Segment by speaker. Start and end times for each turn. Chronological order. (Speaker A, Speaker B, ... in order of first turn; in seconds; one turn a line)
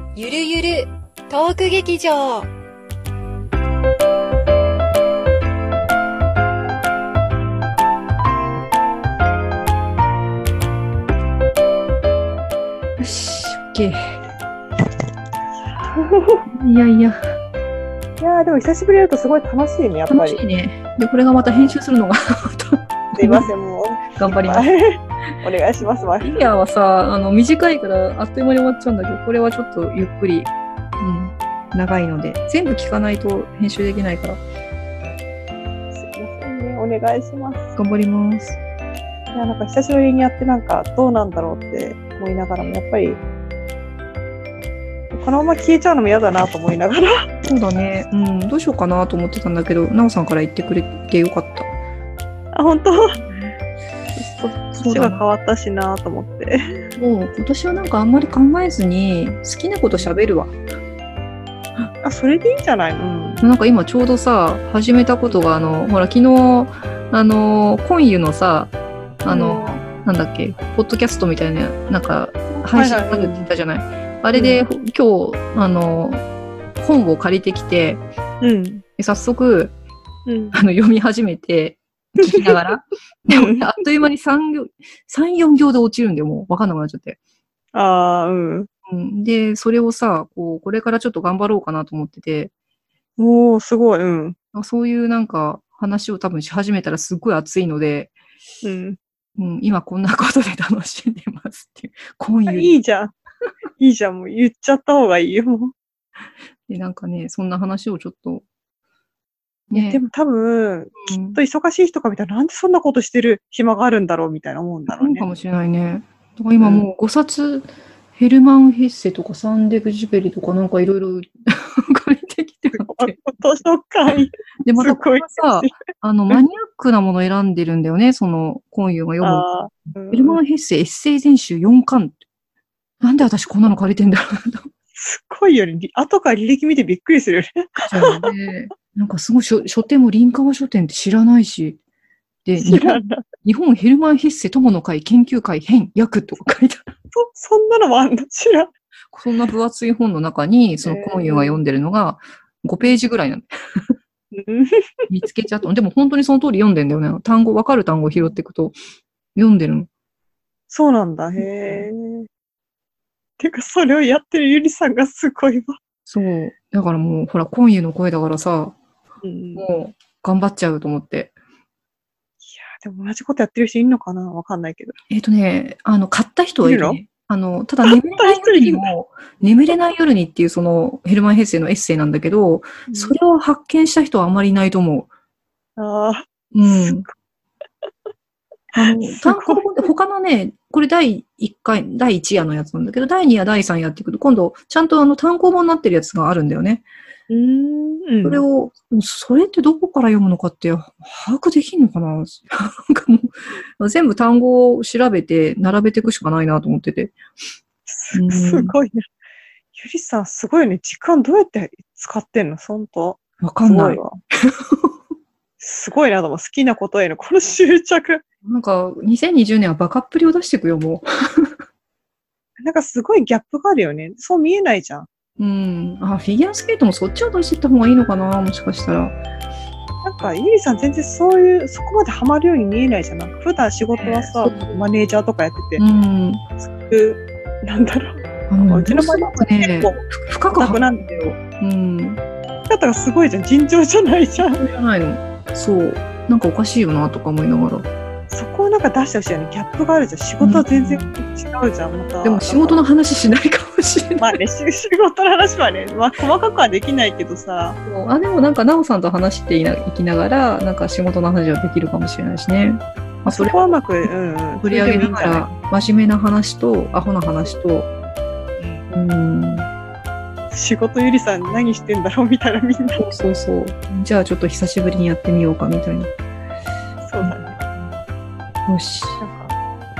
Speaker A: 0.1-2.5
Speaker B: 13.0-14.0
Speaker C: 15.8-16.4
Speaker B: 16.5-17.2
Speaker C: 18.2-20.4
Speaker B: 20.1-23.5
Speaker C: 21.4-21.7
Speaker C: 23.1-26.5
Speaker B: 24.2-24.7
Speaker B: 26.2-34.4
Speaker C: 35.9-37.8
Speaker B: 37.8-38.6
Speaker C: 39.3-43.2
Speaker C: 45.1-47.1
Speaker B: 47.4-51.7
Speaker C: 52.5-53.2
Speaker B: 53.2-53.5
Speaker C: 54.1-56.8
Speaker B: 54.7-55.2
Speaker B: 57.0-60.5
Speaker C: 62.0-63.5
Speaker B: 63.4-76.2
Speaker C: 69.3-69.7
Speaker C: 72.5-73.4
Speaker C: 74.3-74.6
Speaker B: 76.8-78.0
Speaker C: 78.4-78.8
Speaker B: 79.0-79.8
Speaker C: 80.3-80.6
Speaker B: 80.5-87.2
Speaker C: 83.3-83.6
Speaker C: 87.7-88.7
Speaker B: 88.9-92.5
Speaker C: 93.2-94.3
Speaker B: 94.5-98.1
Speaker C: 98.6-99.0
Speaker B: 99.4-102.8
Speaker C: 102.5-103.1
Speaker C: 103.8-105.7
Speaker B: 106.7-108.5
Speaker C: 109.7-115.3
Speaker B: 109.7-110.0
Speaker B: 111.0-111.4
Speaker B: 114.9-123.2
Speaker C: 116.6-116.8
Speaker C: 122.7-126.4
Speaker B: 124.6-129.5
Speaker C: 129.2-130.4
Speaker B: 130.1-132.2
Speaker B: 133.0-134.7
Speaker C: 134.9-138.3
Speaker B: 137.8-141.8
Speaker B: 142.4-146.8
Speaker C: 142.6-143.2
Speaker C: 147.1-148.7
Speaker B: 149.1-153.5
Speaker C: 150.8-151.6
Speaker C: 154.3-154.7
Speaker B: 155.1-158.8
Speaker B: 159.3-159.9
Speaker C: 160.7-162.2
Speaker B: 161.4-161.9
Speaker C: 163.4-165.7
Speaker B: 166.1-168.8
Speaker C: 169.2-169.7
Speaker B: 169.6-171.3
Speaker C: 172.4-174.9
Speaker B: 175.1-185.1
Speaker C: 176.6-177.0
Speaker C: 177.9-178.9
Speaker C: 182.9-183.1
Speaker C: 185.8-186.9
Speaker B: 186.5-187.0
Speaker C: 188.7-189.9
Speaker B: 188.8-196.8
Speaker C: 197.3-198.4
Speaker B: 198.2-207.2
Speaker C: 207.8-209.0
Speaker B: 208.1-208.8
Speaker C: 209.7-214.2
Speaker B: 213.4-214.0
Speaker C: 215.6-218.2
Speaker B: 218.4-221.5
Speaker C: 222.6-225.1
Speaker B: 225.4-229.2
Speaker C: 230.0-235.8
Speaker B: 233.9-234.8
Speaker B: 235.8-236.4
Speaker C: 236.6-241.2
Speaker B: 238.5-242.2
Speaker C: 242.7-244.6
Speaker B: 244.4-247.9
Speaker C: 248.3-252.9
Speaker B: 250.4-251.1
Speaker B: 252.2-254.3
Speaker C: 254.2-257.8
Speaker B: 257.8-263.6
Speaker C: 263.3-265.5
Speaker B: 264.5-267.9
Speaker B: 268.9-269.7
Speaker C: 270.5-273.0
Speaker B: 273.0-276.1
Speaker C: 277.0-277.6
Speaker B: 278.7-279.2
Speaker C: 279.2-279.5